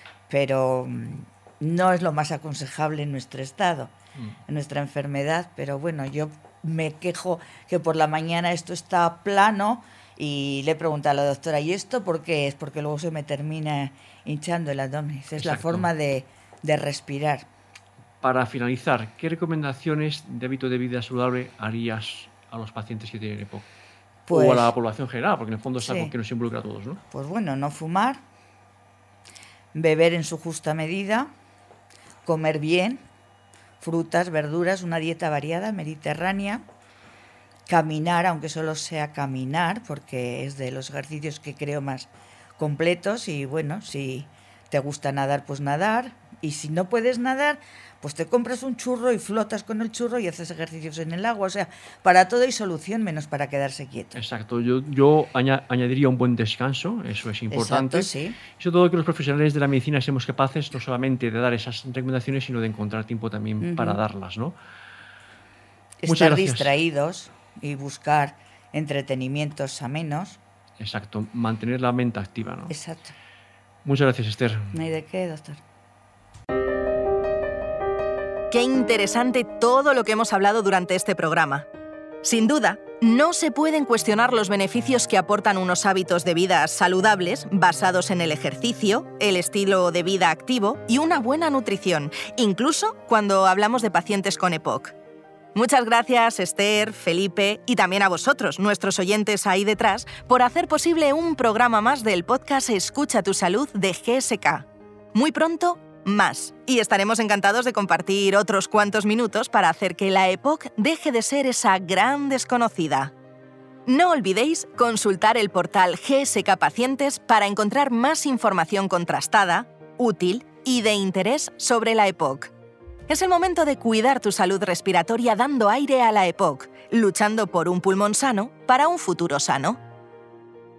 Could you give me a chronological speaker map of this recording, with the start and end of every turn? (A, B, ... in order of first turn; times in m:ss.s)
0:00.3-0:03.9 A
0:04.5-0:17.5 A
0:15.4-0:15.9 B
0:18.2-0:23.7 B
0:24.3-0:24.7 A
0:24.3-0:27.0 B
0:25.8-0:26.1 A
0:27.1-0:28.2 A
0:29.7-0:31.3 A
0:32.2-0:33.0 A
0:33.8-0:36.6 A
0:37.7-0:54.2 A
0:54.1-1:04.6 B
0:57.5-0:58.4 A
1:03.6-1:04.0 A
1:06.0-1:10.4 A
1:06.1-1:06.8 B
1:10.8-1:12.8 B
1:12.7-1:13.1 A
1:13.8-1:14.8 B
1:14.7-1:15.6 A
1:18.5-1:21.6 C
1:22.2-1:35.0 C
1:35.6-1:53.1 C
1:53.9-2:02.5 C
2:03.1-2:09.8 C